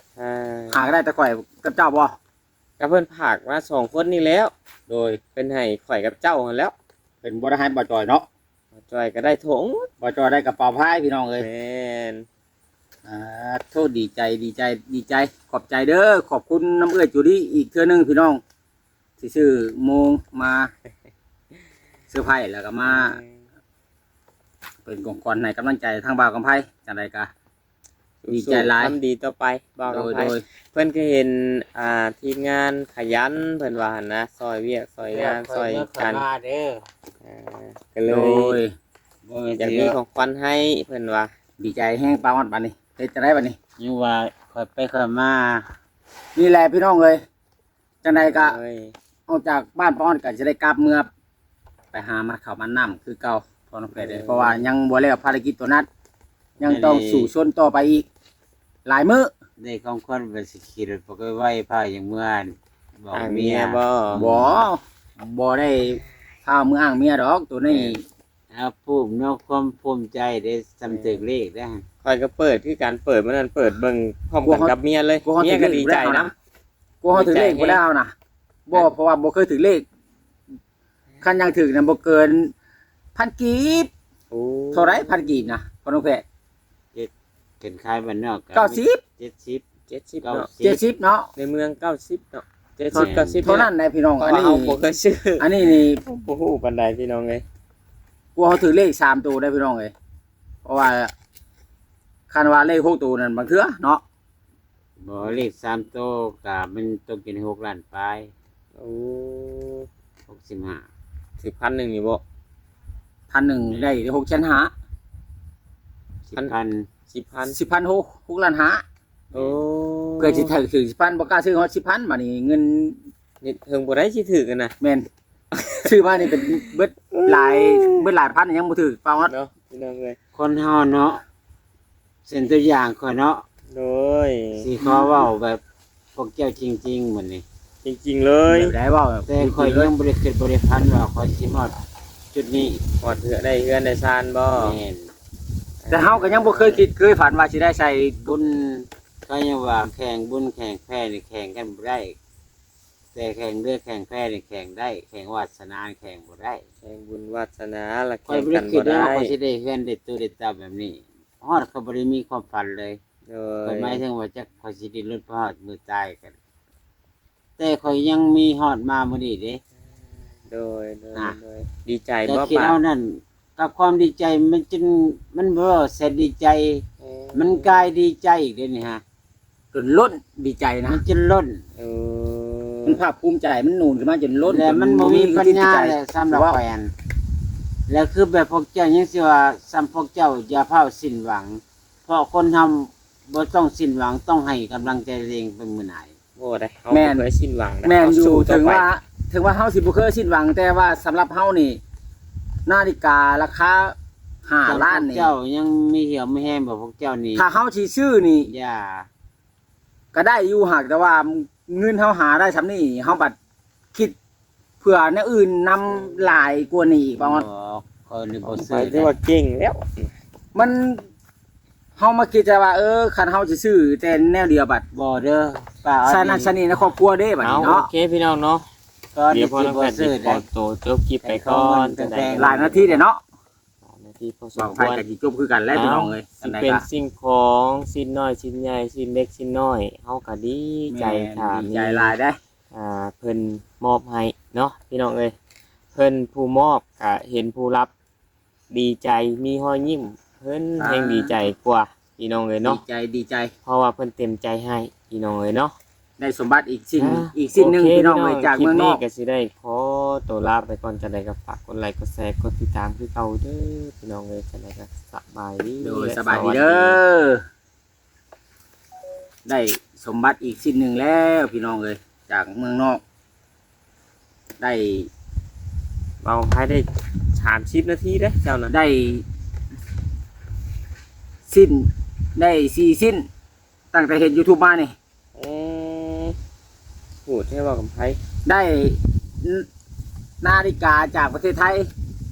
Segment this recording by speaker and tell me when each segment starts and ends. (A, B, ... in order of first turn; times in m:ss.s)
0:00.2-0:00.8 A
0:00.7-0:02.2 B
0:02.8-0:04.5 A
0:04.9-0:05.2 B
0:05.3-0:06.7 A
0:07.2-0:08.3 B
0:08.8-0:09.9 A
0:10.0-0:11.5 B
0:11.4-0:12.3 A
0:13.0-0:18.4 B
0:19.2-0:20.7 B
0:22.1-0:23.2 B
0:22.9-0:23.4 A
0:24.8-0:27.3 B
0:28.2-0:36.2 A
0:28.3-0:29.0 B
0:29.9-0:30.4 B
0:35.0-0:36.8 C
0:37.2-0:38.6 A
0:38.1-0:38.7 B
0:39.3-0:40.0 C
0:39.6-0:41.3 A
0:41.6-0:43.6 B
0:43.8-0:45.7 C
0:46.4-0:47.2 B
0:48.0-0:48.6 B
0:48.2-0:49.0 A
0:49.3-0:51.1 B
0:51.9-0:55.9 B
0:54.0-0:54.7 A
0:56.6-0:58.1 B
0:56.6-0:57.3 C
0:58.8-0:59.3 B
0:59.6-1:04.6 C
1:03.1-1:04.3 A
1:04.2-1:08.0 B
1:07.7-1:08.0 A
1:08.5-1:11.8 C
1:10.8-1:11.2 A
1:12.0-1:16.3 A
1:14.4-1:16.3 B
1:17.0-1:18.1 B
1:17.1-1:17.8 A
1:18.7-1:19.8 B
1:21.2-1:22.5 B
1:23.2-1:23.9 B
1:24.3-1:25.2 A
1:24.7-1:26.2 B
1:26.9-1:29.6 C
1:28.5-1:29.0 B
1:29.9-1:30.5 A
1:30.2-1:30.8 C
1:30.6-1:31.3 B
1:31.4-1:37.4 A
1:32.9-1:33.5 C
1:33.4-1:34.8 B
1:35.4-1:36.0 B
1:38.4-1:39.9 B
1:40.6-1:41.1 B
1:42.3-1:44.0 B
1:45.0-1:48.3 C
1:48.8-1:49.9 A
1:50.3-1:50.9 C
1:51.4-1:52.2 A
1:53.3-1:54.7 B
1:56.3-1:56.9 C
1:57.1-1:57.6 A
1:57.5-1:58.8 B
1:59.3-2:00.5 A
2:00.2-2:03.0 B
2:03.4-2:04.8 A
2:04.8-2:05.1 B
2:05.5-2:08.1 A
2:05.8-2:09.3 B
2:09.3-2:10.2 A
2:10.3-2:11.2 C
2:12.3-2:13.4 C
2:13.7-2:14.7 A
2:14.6-2:15.6 C
2:14.8-2:15.2 B
2:16.2-2:17.4 C
2:17.8-2:18.8 A
2:18.5-2:19.9 B
2:19.3-2:21.8 C
2:22.3-2:22.8 C
2:23.0-2:24.8 A
2:24.6-2:25.1 C
2:25.8-2:26.8 A
2:25.9-2:28.4 B
2:28.2-2:32.2 C
2:33.2-2:36.6 C
2:36.8-2:39.3 A
2:38.3-2:43.0 C
2:43.3-2:44.0 A
2:43.6-2:46.4 C
2:47.6-2:49.6 C
2:50.5-2:52.8 A
2:52.2-2:59.0 C
2:57.0-2:57.9 A
2:59.7-3:01.0 B
3:00.9-3:01.6 C
3:01.8-3:03.0 A
3:02.9-3:06.6 B
3:04.4-3:06.9 C
3:07.9-3:16.1 C
3:16.4-3:18.9 A
3:16.9-3:17.2 B
3:17.8-3:21.8 B
3:22.7-3:24.0 B
3:24.5-3:25.4 B
3:24.6-3:27.5 C
3:27.4-3:28.5 B
3:28.4-3:29.1 C
3:30.1-3:33.4 B
3:34.8-3:37.5 B
3:37.2-3:39.1 C
3:38.4-3:40.1 A
3:40.6-3:41.0 B
3:42.0-3:44.8 B
3:44.9-3:46.5 C
3:46.0-3:47.9 B
3:47.4-3:48.7 A
3:49.1-3:50.4 C
3:49.3-3:53.0 A
3:51.2-3:52.6 C
3:52.4-3:53.2 B
3:53.8-3:55.0 A
3:54.6-3:56.8 B
3:55.7-4:02.2 A
4:00.9-4:02.4 B
4:02.7-4:05.4 A
4:05.9-4:07.9 A
4:08.7-4:12.8 A
4:10.8-4:11.3 B
4:12.6-4:13.5 B
4:13.7-4:15.8 A
4:16.2-4:19.0 B
4:17.0-4:27.0 A
4:25.8-4:27.4 B
4:29.5-4:33.0 B
4:34.6-4:35.1 B
4:36.2-4:38.7 A
4:38.7-4:39.2 B
4:41.5-4:43.2 B
4:43.9-4:44.9 B
4:45.4-4:46.4 A
4:47.3-4:48.2 A
4:48.5-4:49.7 B
4:50.4-4:51.9 B